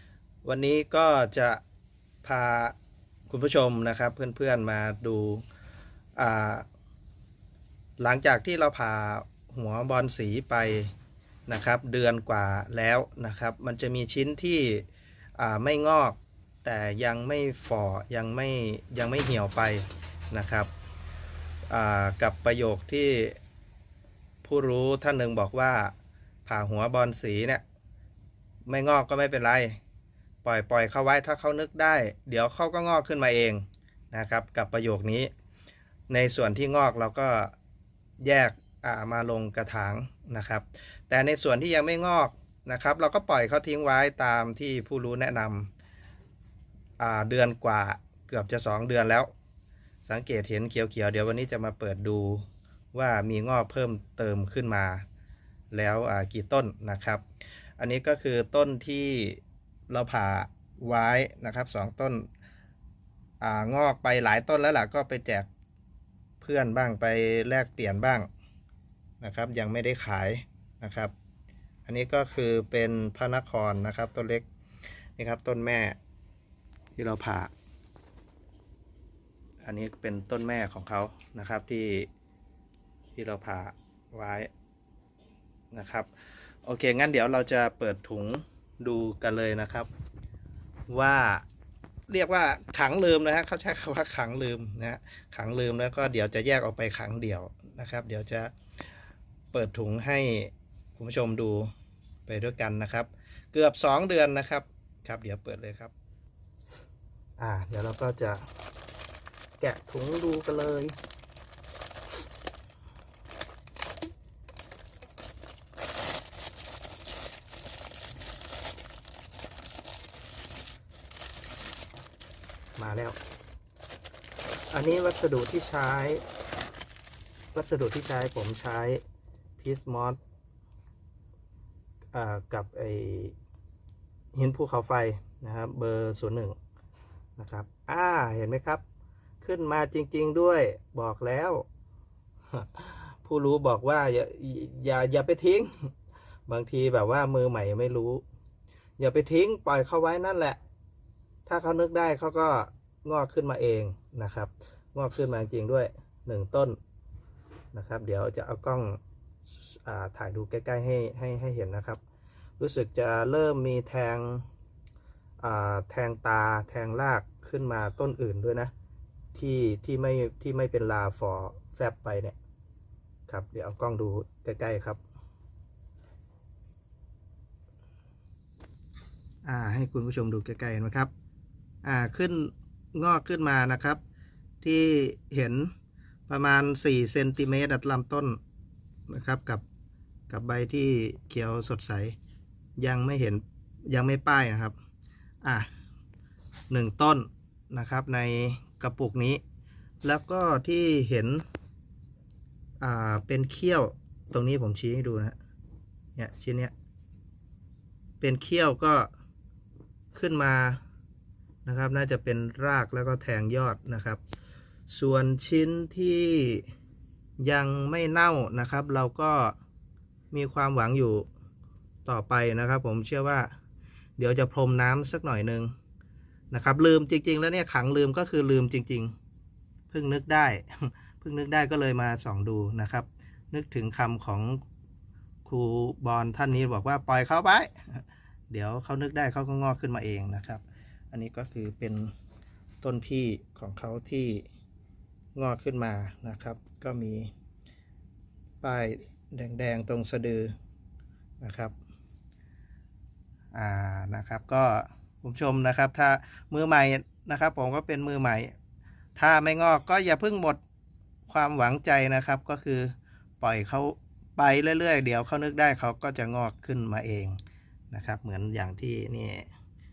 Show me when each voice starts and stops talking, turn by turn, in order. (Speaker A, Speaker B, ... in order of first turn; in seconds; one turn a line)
Speaker A: 0.4-1.6
Speaker A: 2.2-2.8
Speaker A: 3.3-5.4
Speaker A: 6.2-6.7
Speaker A: 8.0-10.9
Speaker A: 11.5-14.9
Speaker A: 15.4-20.7
Speaker A: 21.7-23.4
Speaker A: 24.4-25.9
Speaker A: 26.5-27.6
Speaker A: 28.7-29.8
Speaker A: 30.4-35.3
Speaker A: 36.1-37.5
Speaker A: 38.2-45.7
Speaker A: 47.0-49.3
Speaker A: 50.1-55.0
Speaker A: 55.7-57.2
Speaker A: 57.8-62.3
Speaker A: 63.4-65.5
Speaker A: 66.4-68.3
Speaker A: 69.2-71.1
Speaker A: 71.9-74.5
Speaker A: 75.2-76.0
Speaker A: 77.0-77.5
Speaker A: 79.6-82.1
Speaker A: 83.2-84.5
Speaker A: 85.7-89.9
Speaker A: 90.9-91.5
Speaker A: 92.1-98.5
Speaker A: 99.5-101.7
Speaker A: 102.3-105.9
Speaker A: 107.4-108.5
Speaker A: 109.6-111.0
Speaker A: 122.8-123.2
Speaker A: 124.7-126.2
Speaker A: 127.5-129.0
Speaker A: 129.6-130.2
Speaker A: 132.1-133.3
Speaker A: 134.3-136.6
Speaker A: 137.4-138.8
Speaker A: 139.4-141.7
Speaker A: 142.5-145.9
Speaker A: 146.5-148.2
Speaker A: 149.0-150.6
Speaker A: 151.5-156.8
Speaker A: 157.7-159.0
Speaker A: 159.5-162.0
Speaker A: 162.6-164.4
Speaker A: 165.4-168.7
Speaker A: 169.3-172.4
Speaker A: 173.3-175.0
Speaker A: 179.4-181.1
Speaker A: 181.8-184.0
Speaker A: 184.6-185.7
Speaker A: 186.3-188.4
Speaker A: 189.1-189.6
Speaker A: 190.3-192.2
Speaker A: 192.8-194.8
Speaker A: 195.4-195.7
Speaker A: 196.7-199.4
Speaker A: 200.0-201.4
Speaker A: 202.8-205.4
Speaker A: 206.2-206.7
Speaker A: 208.2-209.1
Speaker A: 210.1-210.8
Speaker A: 211.7-214.2
Speaker A: 214.9-216.7
Speaker A: 217.4-219.6
Speaker A: 220.3-221.3
Speaker A: 222.1-223.5
Speaker A: 224.2-225.7
Speaker A: 226.5-229.1
Speaker A: 229.9-234.6
Speaker A: 235.5-242.1
Speaker A: 242.8-244.4
Speaker A: 245.3-247.3
Speaker A: 248.6-250.5
Speaker A: 251.4-251.7
Speaker A: 253.5-258.5
Speaker A: 259.2-260.6
Speaker A: 261.3-267.4
Speaker A: 267.9-269.5